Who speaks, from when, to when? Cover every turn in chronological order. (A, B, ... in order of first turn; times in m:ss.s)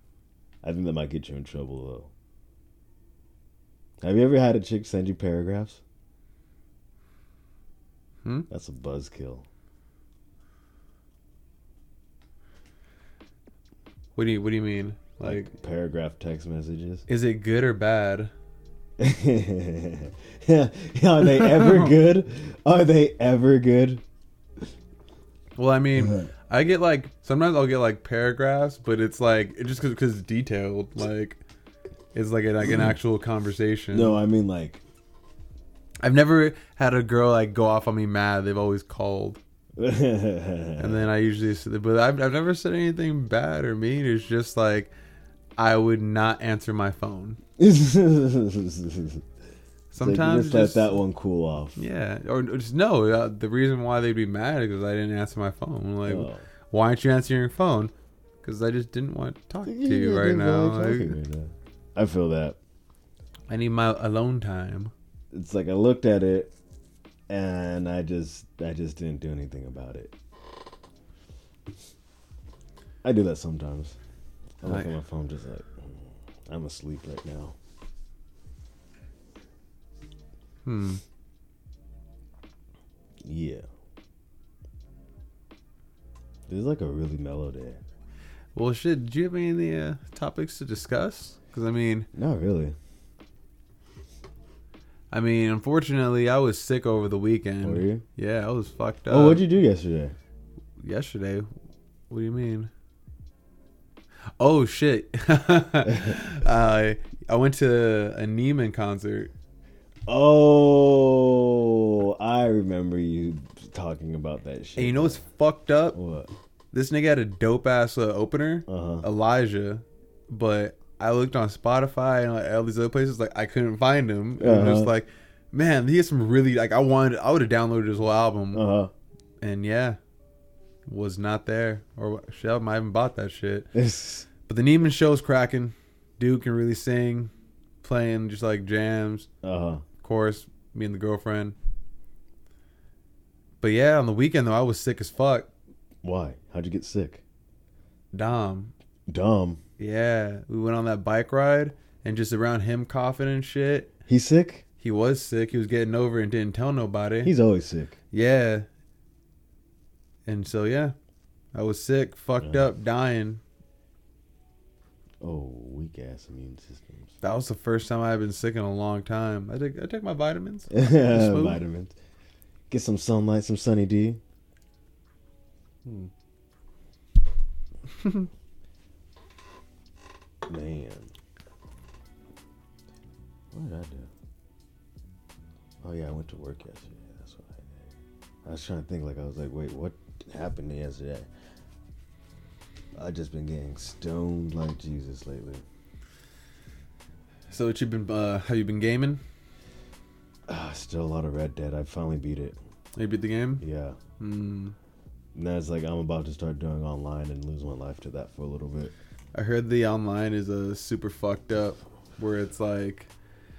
0:00.6-0:02.1 A
0:04.0-0:05.8 A
0:08.5-0:09.5 A
0:14.2-0:15.5 B
0:15.2-0:17.0 A
0:17.1-0:18.3 B
0:19.0-0:24.0 A
0:21.2-0:22.0 B
0:25.6-0:31.4 B
0:25.9-0:26.3 A
0:32.1-0:34.2 B
0:32.7-0:32.9 A
0:33.9-0:34.8 A
0:36.0-0:39.4 B
0:39.8-0:41.1 A
0:40.8-0:44.9 B
0:45.6-0:47.4 B
0:47.6-0:49.3 A
0:49.9-0:51.0 B
0:50.0-0:51.8 A
0:51.8-0:57.9 B
0:56.0-0:56.5 A
0:58.4-1:01.2 B
0:59.6-1:02.6 A
1:03.5-1:04.9 B
1:05.3-1:06.5 A
1:07.3-1:10.2 A
1:13.0-1:14.0 A
1:14.6-1:17.6 A
1:14.6-1:15.0 B
1:20.6-1:21.0 B
1:23.2-1:23.7 A
1:26.5-1:27.8 A
1:28.5-1:32.1 B
1:32.1-1:32.8 A
1:35.1-1:39.4 B
1:37.6-1:38.0 A
1:39.1-1:40.2 A
1:40.8-1:41.6 B
1:42.1-1:42.7 B
1:44.4-1:49.3 B
1:45.9-1:46.2 A
1:50.1-1:55.2 A
1:54.8-1:56.0 B
1:55.9-1:56.3 A
1:56.7-2:08.6 B
1:58.7-1:59.0 A
2:04.4-2:04.9 A
2:08.5-2:08.9 A
2:09.4-2:10.0 B
2:10.8-2:13.7 B
2:13.7-2:14.3 A
2:14.4-2:17.3 B
2:17.8-2:19.3 B
2:19.4-2:19.8 A
2:20.0-2:21.5 B
2:23.6-2:25.5 B
2:26.0-2:27.2 A
2:28.1-2:28.7 B
2:29.1-2:29.6 A
2:29.8-2:33.9 B
2:34.1-2:34.6 A
2:34.8-2:37.3 B
2:37.2-2:38.0 A
2:38.1-2:38.6 B
2:40.2-2:40.9 B
2:41.5-2:43.4 B
2:42.4-2:42.7 A
2:45.2-2:47.2 A
2:47.2-2:51.6 B
2:50.7-2:52.0 A
2:52.7-2:54.2 A
2:55.8-2:56.1 B
2:58.0-2:58.3 B
3:00.4-3:01.1 A
3:03.5-3:04.1 A
3:05.8-3:11.3 A
3:12.9-3:15.6 A
3:17.5-3:19.2 B
3:20.5-3:22.6 A
3:23.0-3:23.6 B
3:23.6-3:24.0 A
3:24.2-3:24.8 B
3:25.3-3:28.9 A
3:29.3-3:33.1 B